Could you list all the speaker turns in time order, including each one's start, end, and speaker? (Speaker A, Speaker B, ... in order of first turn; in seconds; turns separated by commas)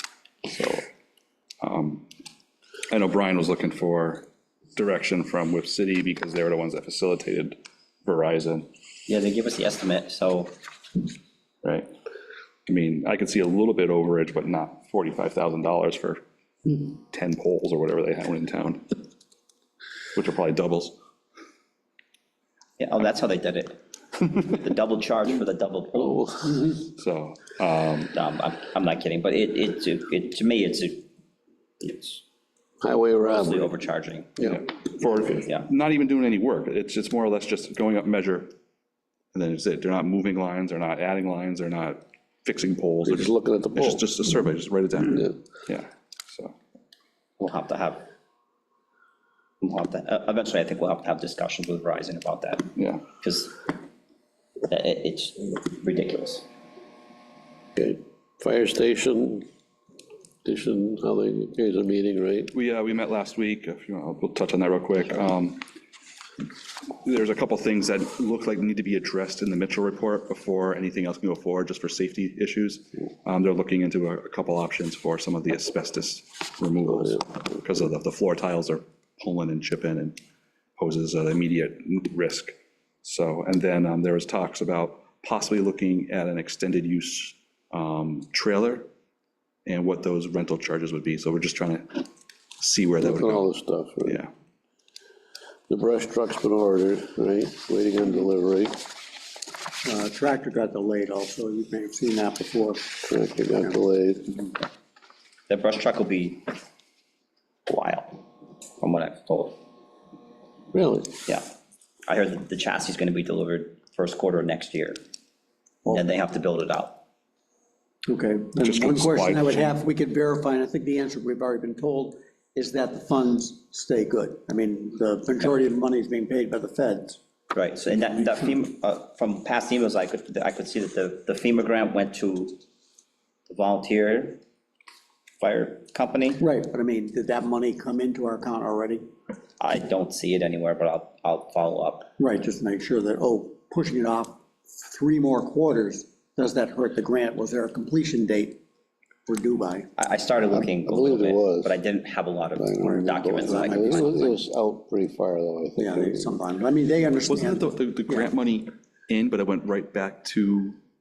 Speaker A: 0.4-0.8, Speaker A: 1.6-2.0, Speaker A: 2.9-8.7, Speaker B: 9.1-10.5, Speaker A: 11.6-11.9, Speaker A: 12.7-18.8, Speaker A: 20.1-20.9, Speaker B: 22.8-26.2, Speaker C: 25.9-26.6, Speaker A: 26.8-28.1, Speaker B: 28.1-31.1, Speaker B: 31.8-32.2, Speaker C: 32.8-33.7, Speaker B: 33.2-34.4, Speaker A: 34.4-38.5, Speaker A: 39.3-46.5, Speaker C: 43.0-44.0, Speaker B: 47.4-48.0, Speaker B: 49.6-52.7, Speaker A: 52.8-53.0, Speaker B: 53.2-53.7, Speaker B: 54.7-56.4, Speaker C: 57.8-59.5, Speaker C: 60.4-62.5, Speaker A: 62.5-65.6, Speaker A: 67.0-80.2, Speaker A: 80.8-88.9, Speaker A: 89.7-93.4, Speaker C: 93.0-94.2, Speaker A: 94.0-94.3, Speaker C: 95.7-98.8, Speaker D: 99.8-103.0, Speaker C: 103.0-104.4, Speaker B: 105.5-106.6, Speaker B: 107.7-108.2, Speaker B: 108.8-109.5, Speaker C: 110.7-111.2, Speaker B: 112.1-115.0, Speaker B: 115.9-117.0, Speaker D: 118.0-127.2, Speaker A: 118.6-119.8, Speaker B: 127.5-132.6, Speaker B: 133.5-134.4, Speaker B: 135.4-136.4, Speaker D: 136.4-139.1, Speaker B: 139.6-142.1, Speaker D: 142.2-148.6, Speaker D: 149.3-149.9, Speaker B: 150.0-154.4, Speaker C: 150.5-151.8, Speaker C: 152.6-156.2, Speaker D: 152.8-153.8, Speaker D: 155.8-157.7, Speaker A: 157.3-160.8